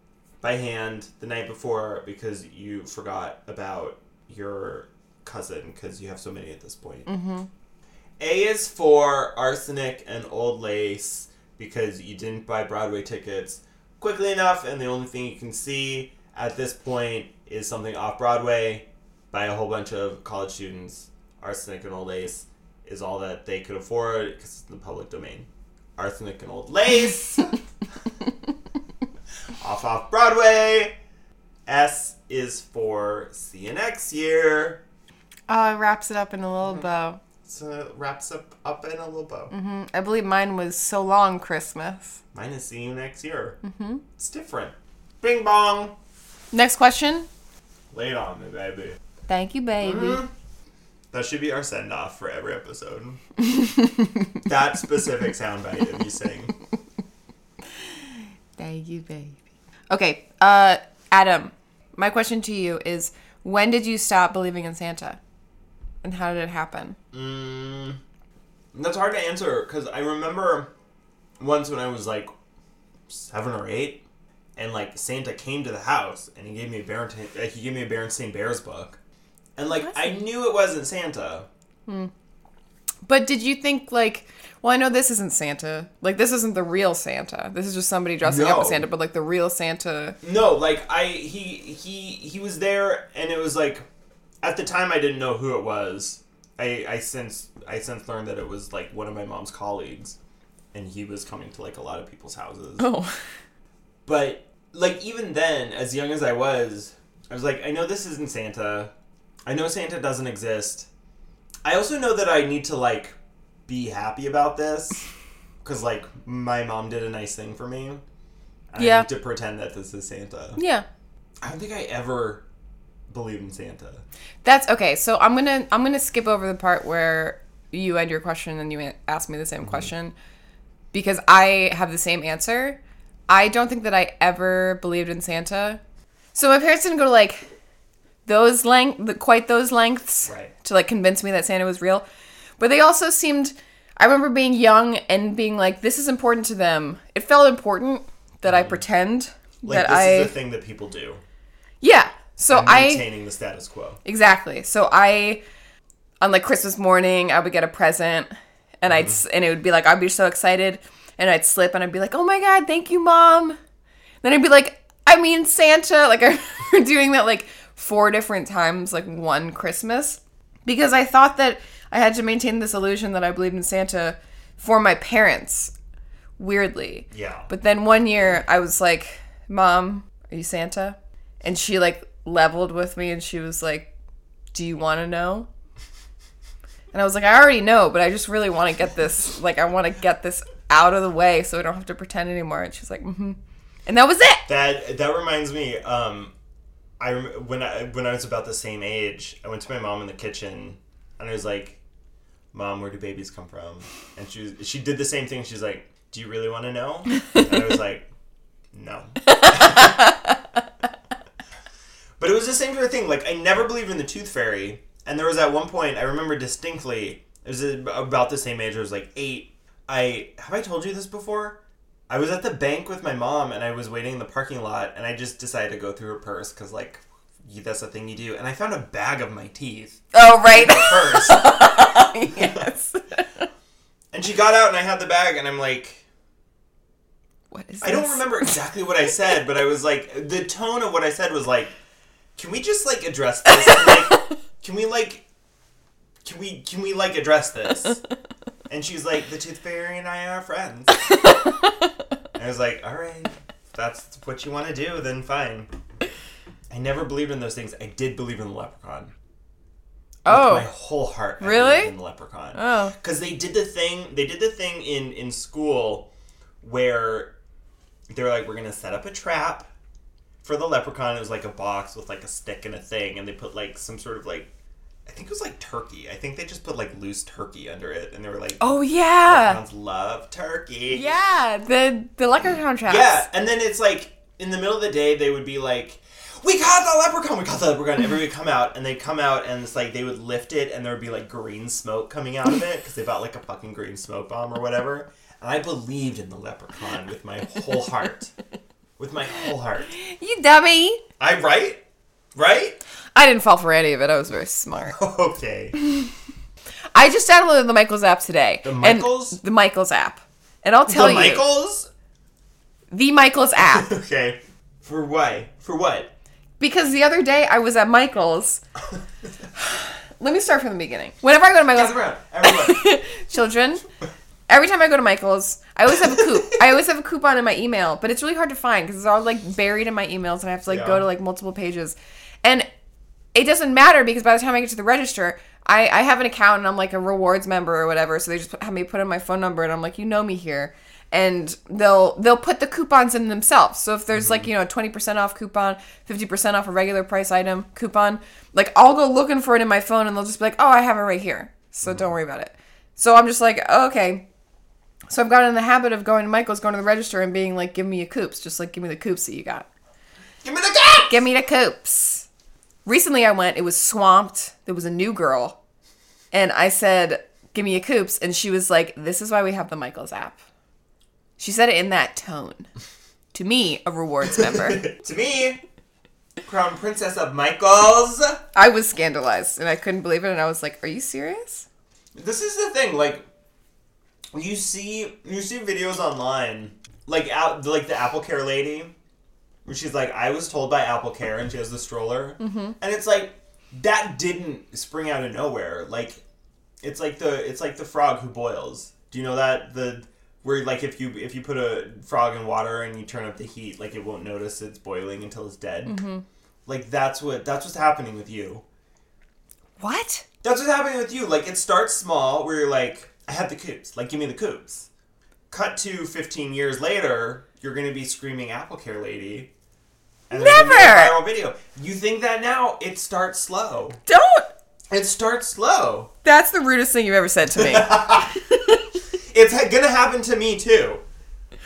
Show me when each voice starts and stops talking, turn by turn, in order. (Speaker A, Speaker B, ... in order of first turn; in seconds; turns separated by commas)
Speaker A: 0.4-7.1, Speaker B: 7.1-7.5, Speaker A: 8.2-27.6, Speaker A: 29.6-31.0, Speaker A: 31.7-34.8, Speaker B: 35.5-37.2, Speaker A: 37.4-39.5, Speaker B: 39.5-42.2, Speaker A: 42.3-43.6, Speaker B: 43.6-44.0, Speaker A: 44.1-46.0, Speaker B: 46.5-47.3, Speaker A: 47.9-49.0, Speaker B: 49.3-50.2, Speaker A: 49.8-50.3, Speaker A: 51.1-53.2, Speaker A: 54.5-56.5, Speaker B: 58.6-59.4, Speaker B: 59.9-65.2, Speaker B: 66.0-67.0, Speaker A: 67.1-68.0, Speaker A: 68.7-70.7, Speaker A: 71.4-72.3, Speaker A: 73.1-74.0, Speaker A: 74.6-79.0, Speaker A: 79.6-81.5, Speaker B: 79.8-80.2, Speaker B: 83.1-90.2, Speaker A: 88.2-88.9, Speaker A: 90.2-93.9, Speaker A: 94.4-100.2, Speaker A: 100.7-102.9, Speaker B: 102.8-103.1, Speaker A: 104.1-108.9, Speaker A: 109.5-110.9, Speaker A: 111.6-113.2, Speaker A: 113.7-115.1, Speaker A: 115.6-118.0, Speaker A: 118.7-120.6, Speaker B: 118.8-119.1, Speaker B: 120.6-120.8, Speaker A: 121.4-122.5, Speaker A: 123.1-124.0, Speaker B: 124.4-130.1, Speaker B: 130.9-135.8, Speaker B: 136.3-137.5, Speaker B: 138.3-142.1, Speaker A: 140.3-140.5, Speaker B: 142.6-150.3, Speaker A: 148.4-148.8, Speaker A: 149.7-151.2, Speaker B: 151.8-153.1, Speaker A: 152.5-154.0, Speaker B: 154.1-155.4, Speaker B: 156.2-163.6, Speaker A: 158.9-159.2, Speaker B: 164.2-175.7, Speaker B: 176.4-183.9, Speaker A: 177.1-177.5, Speaker B: 184.5-185.5, Speaker B: 186.9-194.5, Speaker A: 194.5-196.3, Speaker A: 197.0-201.8, Speaker A: 202.5-208.1, Speaker A: 208.7-209.9, Speaker B: 209.4-210.1, Speaker A: 212.2-231.5, Speaker B: 230.1-233.4, Speaker A: 232.3-232.6, Speaker A: 234.1-236.1, Speaker B: 237.5-238.6, Speaker A: 237.8-241.8, Speaker A: 242.4-245.3, Speaker A: 246.2-248.0, Speaker A: 248.7-251.0, Speaker A: 252.3-255.7, Speaker A: 256.7-259.1, Speaker B: 260.2-260.7, Speaker A: 260.3-266.1, Speaker B: 261.4-261.9, Speaker B: 262.6-262.9, Speaker A: 266.6-267.4, Speaker A: 268.1-269.7, Speaker A: 270.4-274.5, Speaker A: 275.1-281.1, Speaker B: 278.6-279.6, Speaker B: 280.9-283.2, Speaker A: 282.9-298.3, Speaker A: 299.0-299.9, Speaker B: 299.9-301.0, Speaker A: 301.2-301.8, Speaker A: 302.4-302.8, Speaker B: 303.1-305.0, Speaker A: 304.9-305.8, Speaker B: 306.9-311.5, Speaker A: 308.6-309.4, Speaker A: 310.9-311.9, Speaker B: 312.9-313.9, Speaker A: 313.6-316.1, Speaker B: 316.6-318.6, Speaker B: 319.6-323.8, Speaker A: 321.7-322.8, Speaker B: 324.5-332.7, Speaker A: 330.7-331.1, Speaker B: 333.3-354.2, Speaker A: 344.1-344.5, Speaker A: 351.8-352.1, Speaker B: 355.1-359.7, Speaker A: 360.4-361.2, Speaker B: 361.1-362.3, Speaker B: 362.9-365.6, Speaker B: 366.3-370.4, Speaker B: 371.4-372.7, Speaker B: 373.3-374.9, Speaker A: 374.3-375.6, Speaker A: 376.4-378.4, Speaker B: 378.6-381.7, Speaker A: 382.1-383.2, Speaker A: 384.3-388.9, Speaker A: 389.6-396.2, Speaker B: 392.4-392.8, Speaker A: 396.8-406.0, Speaker B: 405.9-406.2, Speaker A: 406.7-408.6, Speaker B: 409.8-410.2, Speaker A: 410.4-414.9, Speaker A: 415.5-419.5, Speaker A: 420.3-424.0, Speaker B: 420.3-421.2, Speaker B: 424.1-424.5, Speaker A: 424.9-426.1, Speaker B: 426.2-428.1, Speaker A: 427.6-428.5, Speaker A: 429.3-431.0